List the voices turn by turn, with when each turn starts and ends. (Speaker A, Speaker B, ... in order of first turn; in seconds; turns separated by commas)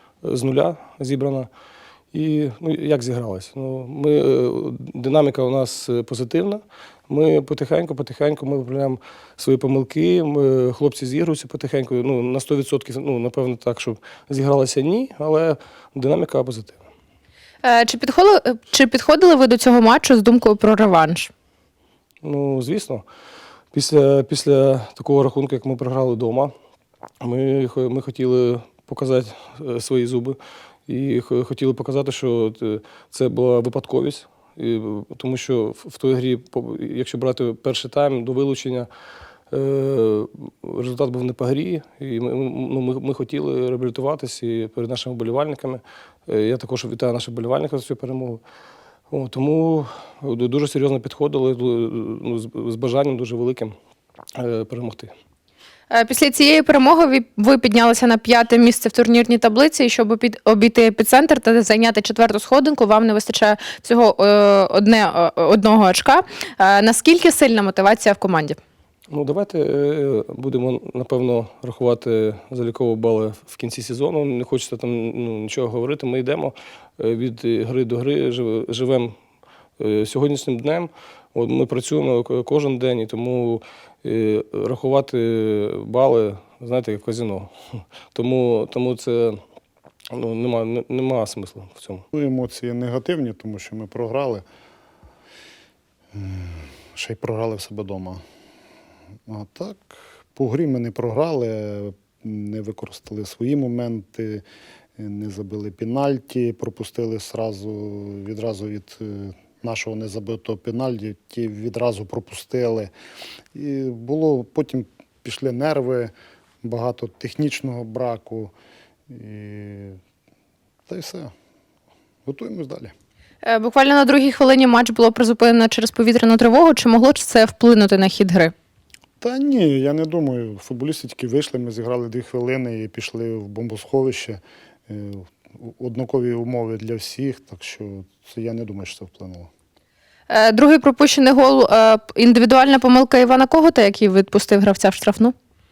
Speaker A: 0.2-1.5, Speaker A: 2.1-16.8, Speaker B: 17.6-21.3, Speaker A: 22.2-23.0, Speaker A: 23.7-26.5, Speaker A: 27.2-38.9, Speaker A: 39.5-48.4, Speaker A: 49.1-53.7, Speaker A: 54.4-55.1, Speaker B: 55.9-68.6, Speaker A: 69.1-79.1, Speaker A: 79.8-89.4, Speaker A: 90.1-92.0, Speaker C: 92.1-94.5, Speaker C: 96.1-98.2, Speaker C: 99.3-104.4, Speaker C: 105.0-112.9, Speaker C: 113.5-118.5, Speaker C: 119.1-120.0, Speaker C: 120.9-121.3, Speaker C: 122.3-122.9, Speaker B: 123.4-128.5, Speaker C: 129.2-139.5, Speaker B: 140.3-145.3